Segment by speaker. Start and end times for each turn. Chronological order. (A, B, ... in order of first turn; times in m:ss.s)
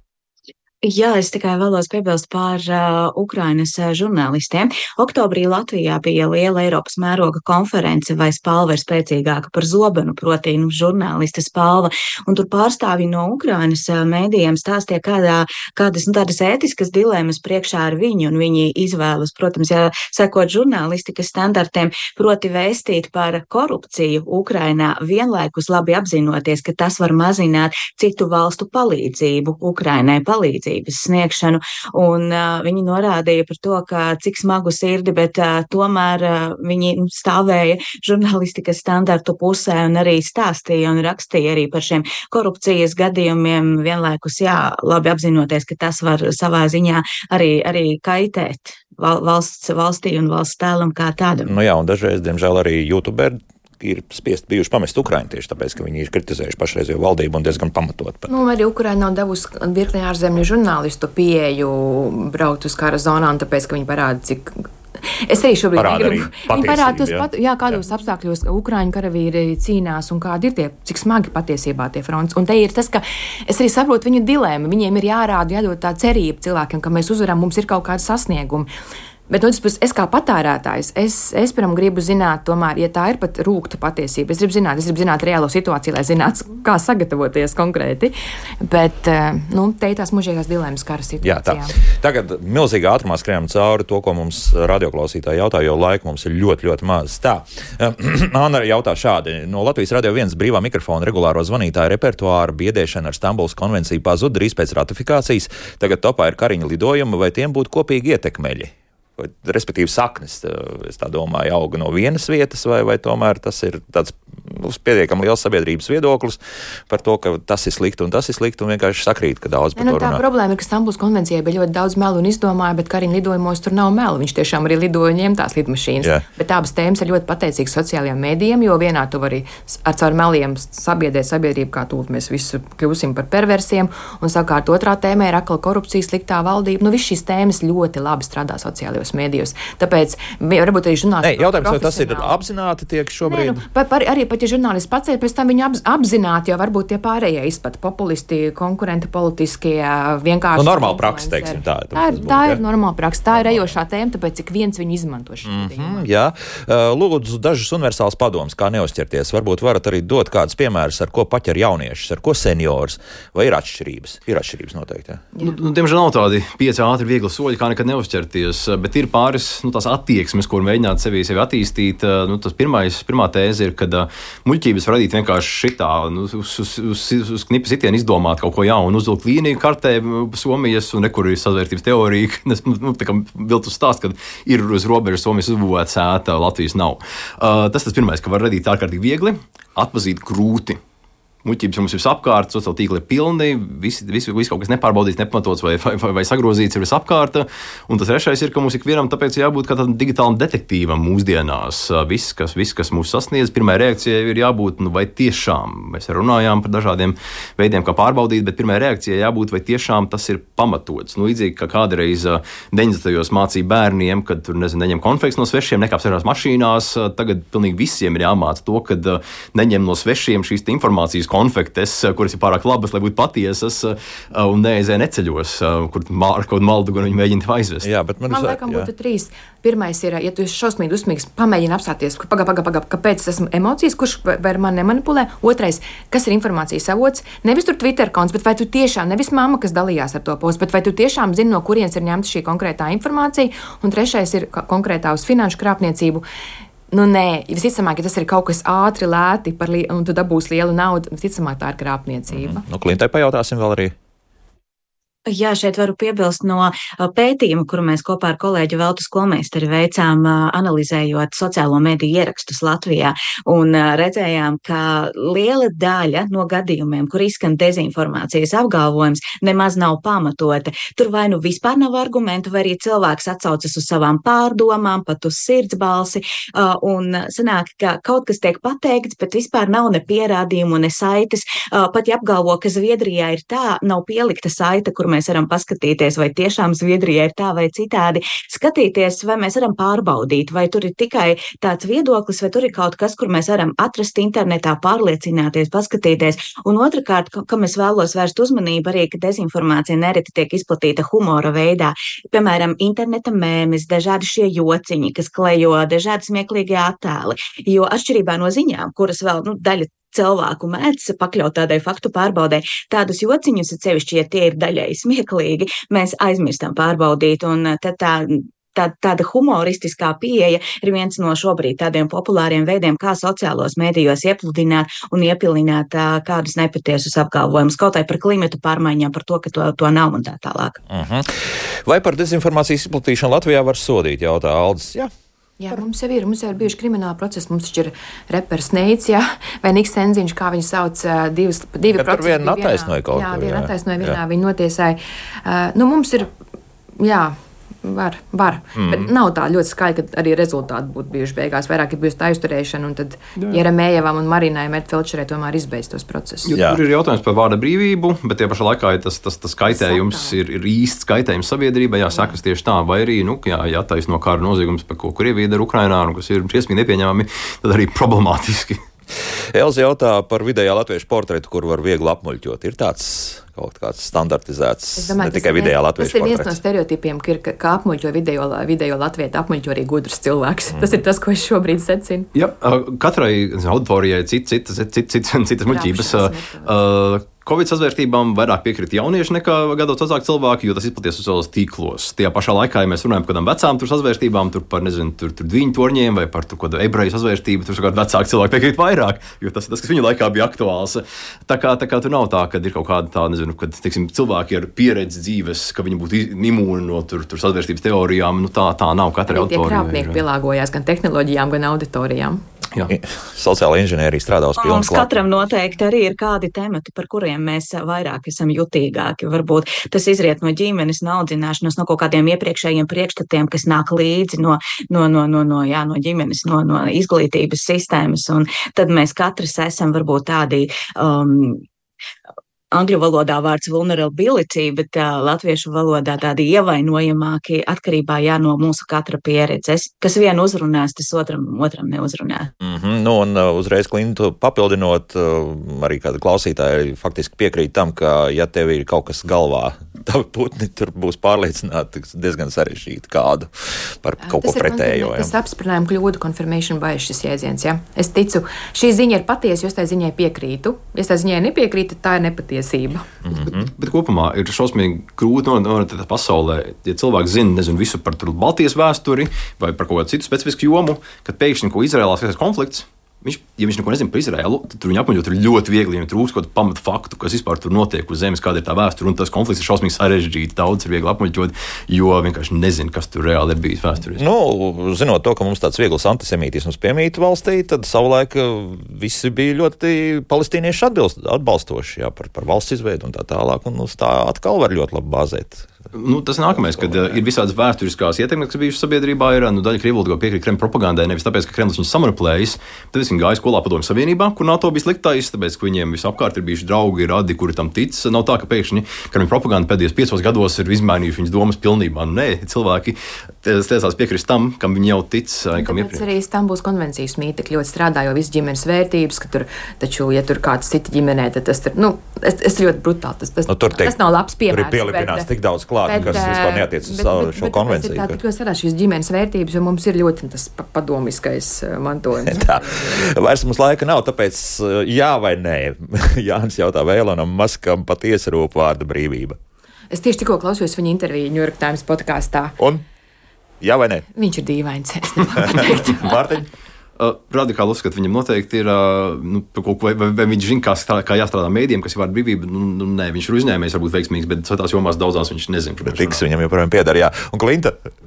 0:00.8-0:51.6 A
0:51.5-0:58.3 B
0:58.3-1:18.7 C
1:05.8-1:07.3 B
1:19.3-1:31.8 C
1:31.2-2:00.2 B
1:59.8-2:22.4 C
2:21.2-2:23.6 B
2:23.3-2:36.0 C
2:30.6-2:32.6 B
2:33.3-2:33.7 B
2:35.4-2:45.3 B
2:45.4-3:10.8 D
3:11.4-3:47.9 D
3:47.8-3:48.9 B
3:48.2-4:06.2 C
4:06.9-4:12.6 C
4:12.3-4:14.0 B
4:15.3-5:30.8 A
5:30.9-5:35.1 B
5:35.6-5:46.3 C
5:41.9-5:44.2 B
5:47.0-5:56.5 C
5:48.8-5:49.1 B
5:56.5-6:08.8 D
5:59.7-6:00.4 C
6:09.5-6:16.6 B
6:15.0-6:22.3 C
6:20.7-6:21.0 B
6:22.4-6:50.2 D
6:25.7-6:26.8 C
6:49.3-6:52.4 C
6:52.9-6:55.3 B
6:54.6-7:11.6 A
7:12.7-7:22.5 A
7:22.6-7:35.3 B
7:34.2-7:43.1 C
7:43.2-7:43.7 B
7:43.3-8:04.2 D
8:04.2-8:15.7 B
8:15.9-8:36.0 D
8:16.6-8:17.2 B
8:35.6-8:45.3 C
8:43.5-8:44.0 B
8:44.5-8:48.2 B
8:45.8-8:52.9 C
8:46.0-8:46.3 D
8:52.2-8:59.4 B
8:59.9-9:02.6 C
9:02.6-9:02.8 B
9:03.6-9:04.0 B
9:04.1-9:06.3 C
9:05.4-9:06.5 B
9:07.0-9:16.2 D
9:15.9-9:17.8 B